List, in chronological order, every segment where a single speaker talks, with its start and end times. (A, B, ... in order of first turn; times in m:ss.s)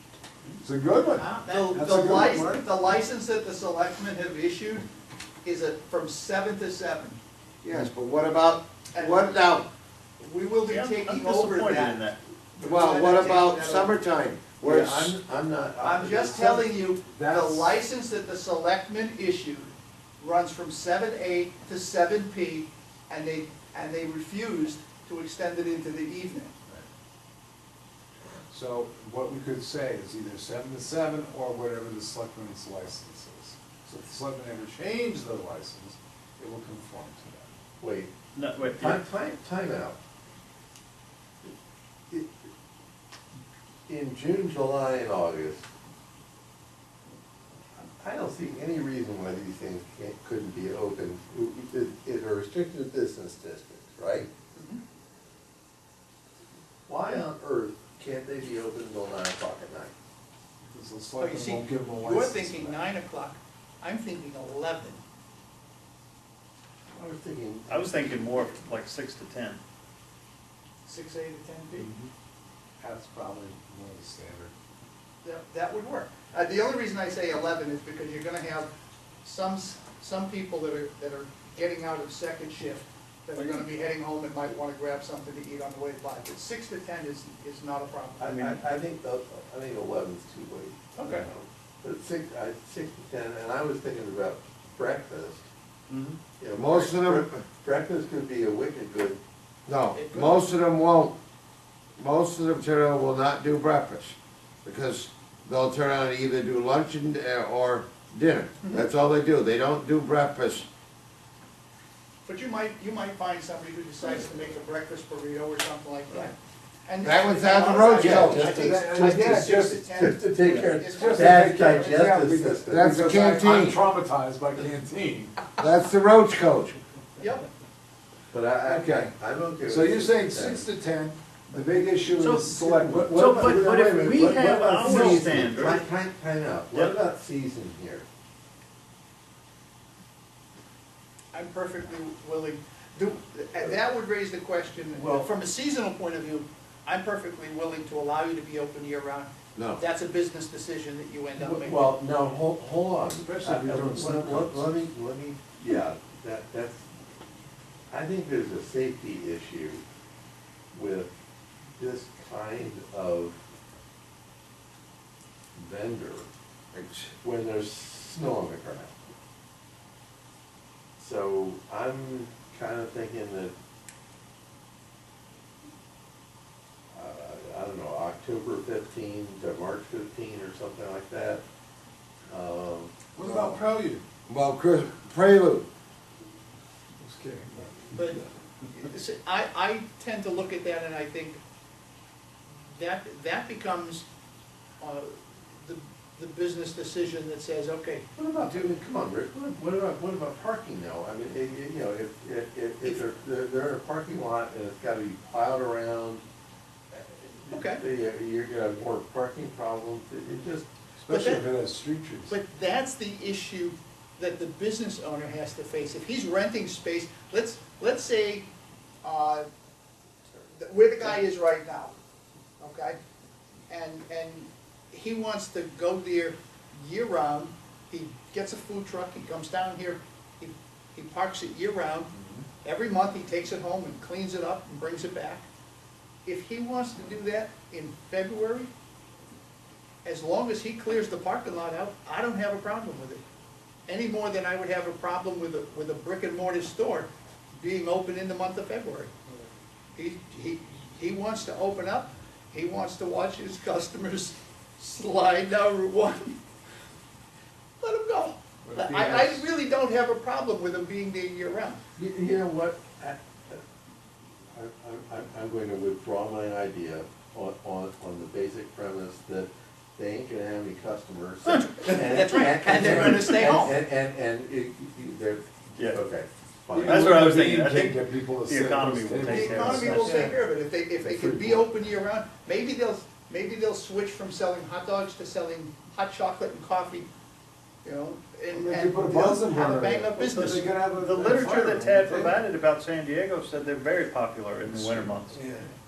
0:00.6-0:02.6 A
0:01.1-0:04.8 B
0:05.4-0:07.2 B
0:07.6-0:09.6 C
0:08.9-0:09.4 B
0:10.2-0:14.0 B
0:10.6-0:12.2 D
0:12.6-0:15.2 C
0:14.6-0:16.7 E
0:15.8-0:26.5 B
0:17.1-0:17.7 A
0:28.5-0:37.5 A
0:37.8-0:38.1 E
0:38.3-0:39.0 D
0:38.7-0:40.0 E
0:43.9-0:45.6 E
0:47.8-0:54.3 E
0:54.5-0:54.8 B
0:56.9-0:59.9 E
1:00.6-1:02.8 A
1:01.2-1:05.0 B
1:06.9-1:08.6 E
1:07.7-1:09.6 D
1:10.8-1:11.9 B
1:12.8-1:14.5 A
1:15.2-1:18.7 B
1:19.2-1:28.4 B
1:23.4-1:23.6 D
1:28.2-1:35.4 E
1:28.3-1:28.6 D
1:35.9-1:36.2 D
1:36.4-1:39.2 E
1:36.5-1:37.4 C
1:39.7-1:41.1 C
1:39.9-1:40.4 B
1:42.0-1:50.7 C
1:52.2-1:56.3 B
1:56.9-2:01.6 B
1:57.0-1:58.7 C
1:57.9-2:02.9 E
1:58.0-2:05.5 A
2:02.7-2:03.8 C
2:05.6-2:06.8 C
2:07.2-2:07.5 B
2:08.3-2:10.6 E
2:08.6-2:14.1 A
2:12.2-2:15.8 D
2:12.3-2:18.0 E
2:13.4-2:15.8 C
2:21.3-2:31.9 B
2:25.0-2:25.3 E
2:31.4-2:36.8 E
2:33.1-2:34.7 A
2:37.9-2:39.8 E
2:40.7-2:41.1 E
2:41.8-2:43.4 E
2:45.6-2:46.3 E
2:46.7-2:47.1 C
2:47.2-2:49.0 E
2:51.0-2:53.5 E
2:56.9-3:01.4 E
3:02.3-3:03.1 E
3:03.1-3:04.0 A
3:03.3-3:03.5 C
3:04.3-3:05.6 C
3:07.0-3:08.1 A
3:07.9-3:11.4 B
3:12.7-3:14.0 B
3:14.8-3:18.6 B
3:18.2-3:26.2 E
3:26.9-3:30.7 E
3:27.5-3:27.8 B
3:31.0-3:32.3 A
3:31.1-3:31.5 B
3:32.3-3:38.4 B
3:39.0-3:39.4 B
3:40.6-3:41.9 B
3:42.6-3:43.0 B
3:43.7-3:52.1 B
3:52.1-3:52.4 A
3:52.6-3:55.4 B
3:56.2-3:58.7 B
4:00.0-4:03.2 B
4:03.9-4:09.1 B
4:10.0-4:16.4 B
4:17.8-4:21.8 B
4:18.7-4:19.4 A
4:22.0-4:23.6 E
4:24.5-4:37.4 E
4:31.5-4:33.8 B
4:35.8-4:36.0 D
4:36.7-4:40.4 A
4:36.8-4:40.3 D
4:39.2-4:47.1 B
4:41.0-4:41.6 A
4:47.8-4:50.7 B
4:48.5-4:52.4 A
4:51.0-4:55.4 D
4:54.7-4:55.7 A